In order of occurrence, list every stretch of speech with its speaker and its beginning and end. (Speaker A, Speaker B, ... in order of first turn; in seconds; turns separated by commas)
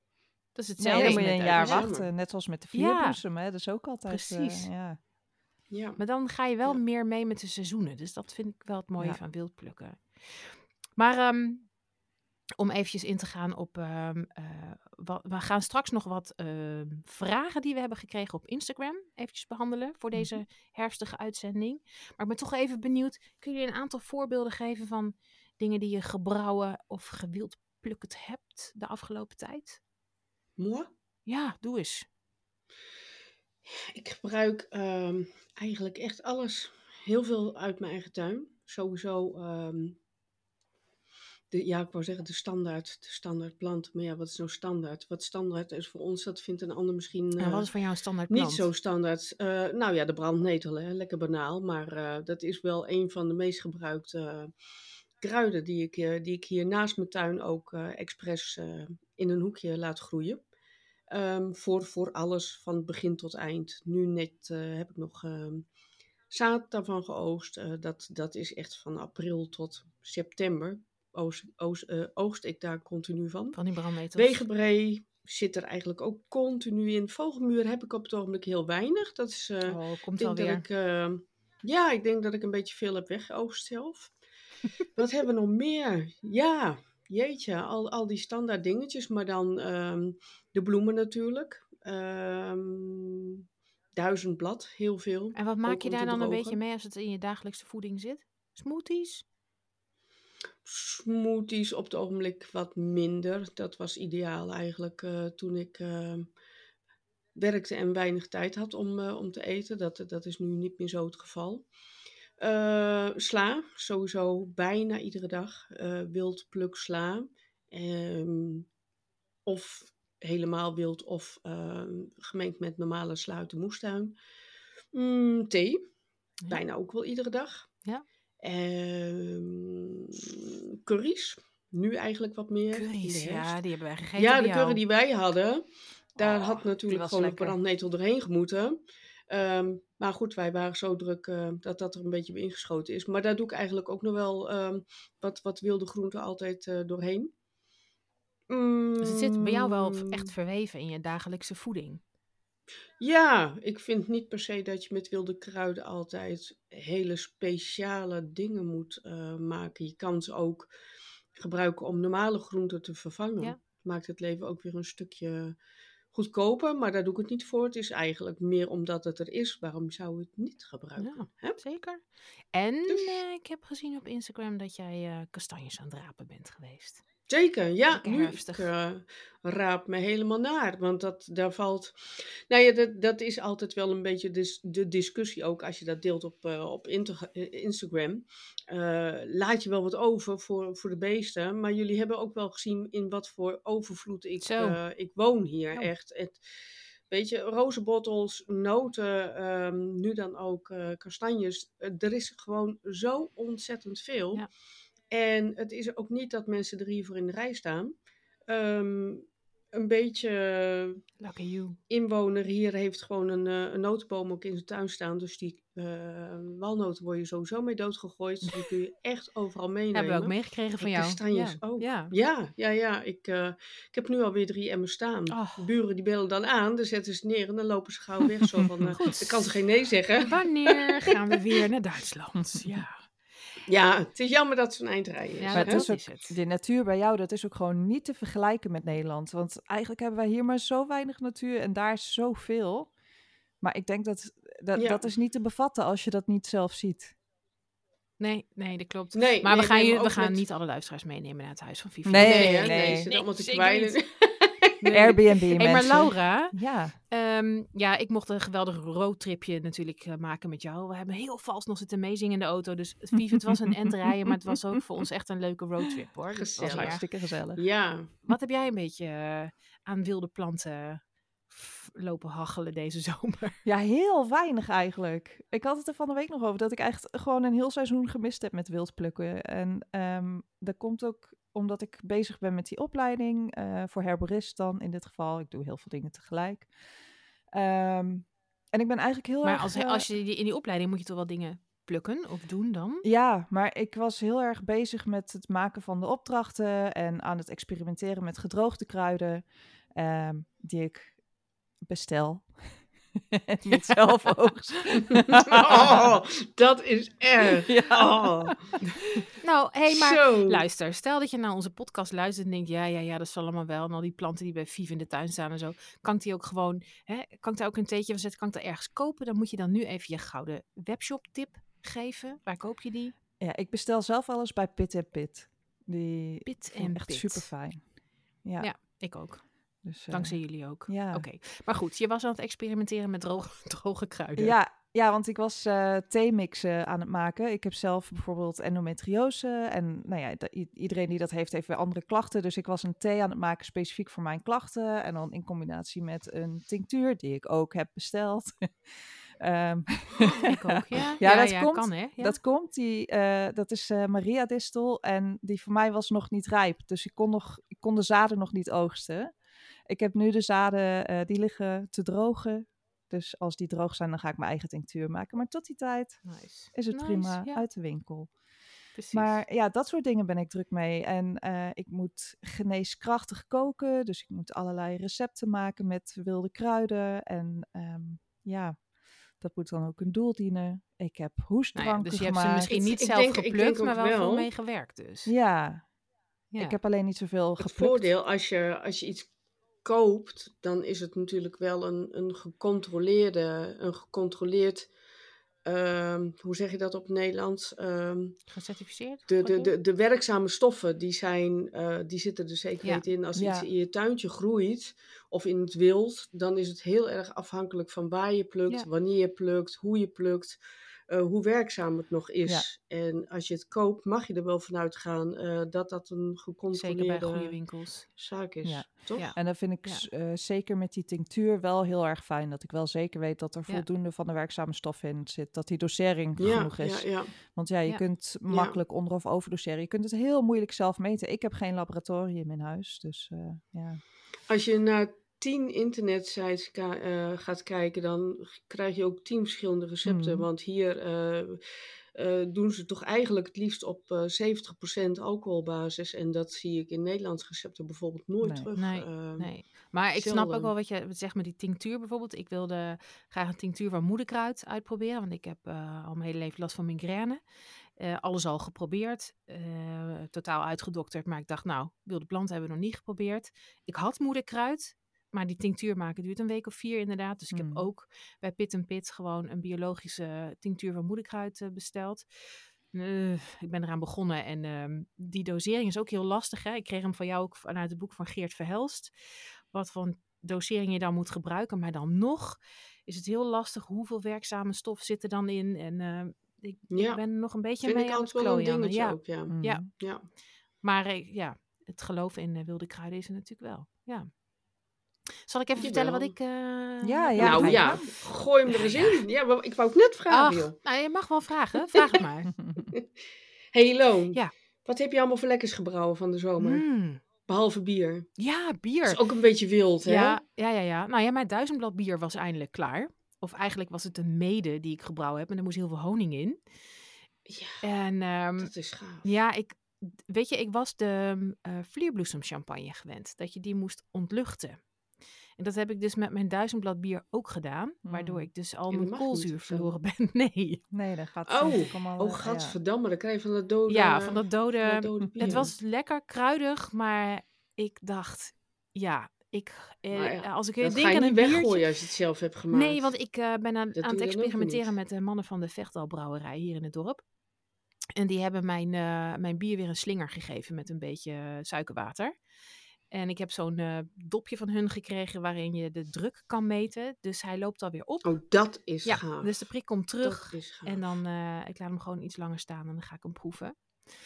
Speaker A: 0.6-1.9, Speaker B: 0.8-5.0, Speaker C: 0.9-2.1, Speaker A: 2.7-3.2, Speaker A: 4.1-4.7, Speaker C: 5.7-6.0, Speaker A: 6.0-11.7, Speaker A: 12.6-29.8, Speaker B: 20.1-20.4, Speaker C: 30.6-30.9, Speaker A: 31.3-32.1, Speaker C: 33.7-40.0, Speaker C: 41.5-47.7, Speaker A: 47.4-48.7, Speaker C: 48.3-54.5, Speaker C: 55.2-60.4, Speaker C: 61.1-65.7, Speaker C: 66.3-73.6, Speaker A: 73.5-74.4, Speaker C: 74.2-84.1, Speaker A: 79.7-80.7, Speaker C: 84.9-93.4, Speaker C: 94.0-96.6, Speaker A: 95.3-99.2, Speaker C: 100.7-106.3, Speaker C: 107.4-111.6, Speaker C: 112.4-118.7, Speaker C: 119.5-124.2, Speaker C: 124.9-125.8, Speaker C: 126.5-127.7, Speaker C: 128.4-133.6, Speaker A: 132.7-134.8, Speaker C: 134.2-147.3, Speaker A: 136.3-136.6, Speaker B: 136.9-137.6, Speaker C: 148.5-150.3, Speaker A: 149.0-152.0, Speaker C: 153.0-160.7, Speaker C: 161.4-165.6, Speaker C: 166.1-171.6, Speaker A: 171.0-177.0, Speaker C: 172.9-173.2, Speaker C: 177.3-196.4, Speaker A: 177.9-178.7, Speaker A: 194.4-194.8, Speaker C: 197.1-204.5, Speaker C: 205.1-207.9, Speaker C: 208.5-211.0, Speaker A: 211.2-211.8, Speaker C: 211.9-231.1, Speaker A: 219.9-222.1, Speaker A: 225.3-225.7, Speaker B: 228.5-229.0, Speaker A: 228.9-229.4, Speaker A: 230.2-233.1, Speaker B: 232.5-232.8, Speaker C: 233.7-235.9, Speaker A: 235.4-236.4, Speaker B: 235.6-242.9, Speaker B: 243.6-247.1, Speaker C: 244.8-245.1, Speaker A: 248.2-254.0, Speaker C: 249.1-250.4, Speaker B: 252.1-253.1, Speaker C: 252.2-255.1, Speaker A: 254.8-256.6, Speaker B: 254.9-257.0, Speaker A: 257.1-267.0, Speaker C: 266.3-268.1, Speaker B: 266.6-267.6, Speaker A: 268.3-273.6, Speaker B: 273.6-286.7, Speaker B: 287.5-290.1, Speaker A: 289.4-293.1, Speaker B: 293.0-301.1, Speaker B: 301.9-302.5, Speaker B: 303.2-306.1, Speaker A: 303.7-303.9, Speaker C: 305.3-308.6, Speaker B: 307.4-308.6, Speaker A: 309.4-323.1, Speaker C: 309.9-310.6, Speaker B: 323.4-327.8, Speaker A: 326.5-327.5, Speaker B: 328.4-328.7, Speaker A: 328.6-329.4, Speaker B: 329.8-331.3, Speaker A: 330.1-334.6, Speaker B: 334.4-359.3, Speaker A: 350.4-352.4, Speaker B: 359.9-368.3, Speaker A: 366.2-367.6, Speaker A: 369.0-369.4, Speaker B: 369.1-378.8, Speaker B: 379.4-382.8, Speaker A: 381.8-385.3, Speaker C: 382.7-384.5, Speaker B: 385.3-385.8, Speaker B: 386.6-388.1, Speaker C: 387.6-389.3, Speaker C: 389.8-394.9, Speaker C: 395.6-398.4, Speaker A: 398.5-399.7, Speaker C: 399.3-410.6, Speaker B: 403.4-403.7, Speaker C: 411.1-417.6, Speaker A: 416.7-418.1, Speaker C: 418.2-419.3, Speaker B: 418.6-434.0, Speaker A: 419.1-420.1, Speaker C: 426.4-427.3, Speaker C: 428.5-428.8, Speaker C: 434.5-449.5, Speaker B: 440.1-440.5, Speaker B: 448.4-448.7, Speaker A: 448.8-457.4, Speaker C: 450.1-450.7, Speaker A: 458.0-472.3, Speaker B: 467.5-467.9, Speaker A: 472.9-479.1, Speaker A: 479.7-489.9, Speaker C: 486.9-487.2, Speaker C: 487.8-490.2, Speaker B: 489.5-489.9, Speaker A: 490.8-494.3, Speaker A: 495.5-498.0, Speaker C: 495.8-496.3, Speaker B: 497.0-498.1, Speaker C: 497.4-500.8, Speaker A: 498.7-499.2, Speaker A: 500.3-502.5, Speaker C: 501.9-502.2, Speaker C: 503.7-506.8, Speaker A: 506.6-507.2, Speaker C: 507.5-508.3, Speaker A: 508.4-509.2, Speaker C: 509.0-510.4, Speaker A: 510.1-516.6, Speaker C: 517.5-517.8, Speaker A: 517.8-518.7, Speaker C: 518.6-519.3, Speaker A: 519.2-524.8, Speaker A: 525.6-530.8, Speaker B: 528.0-528.5, Speaker C: 528.9-529.9, Speaker B: 530.9-532.8, Speaker C: 531.5-535.7, Speaker A: 533.9-541.9, Speaker C: 540.1-543.1, Speaker A: 542.7-547.2, Speaker C: 544.0-544.9, Speaker A: 548.2-552.4, Speaker A: 553.1-558.4, Speaker C: 558.2-559.6, Speaker A: 559.0-563.8, Speaker C: 560.2-561.1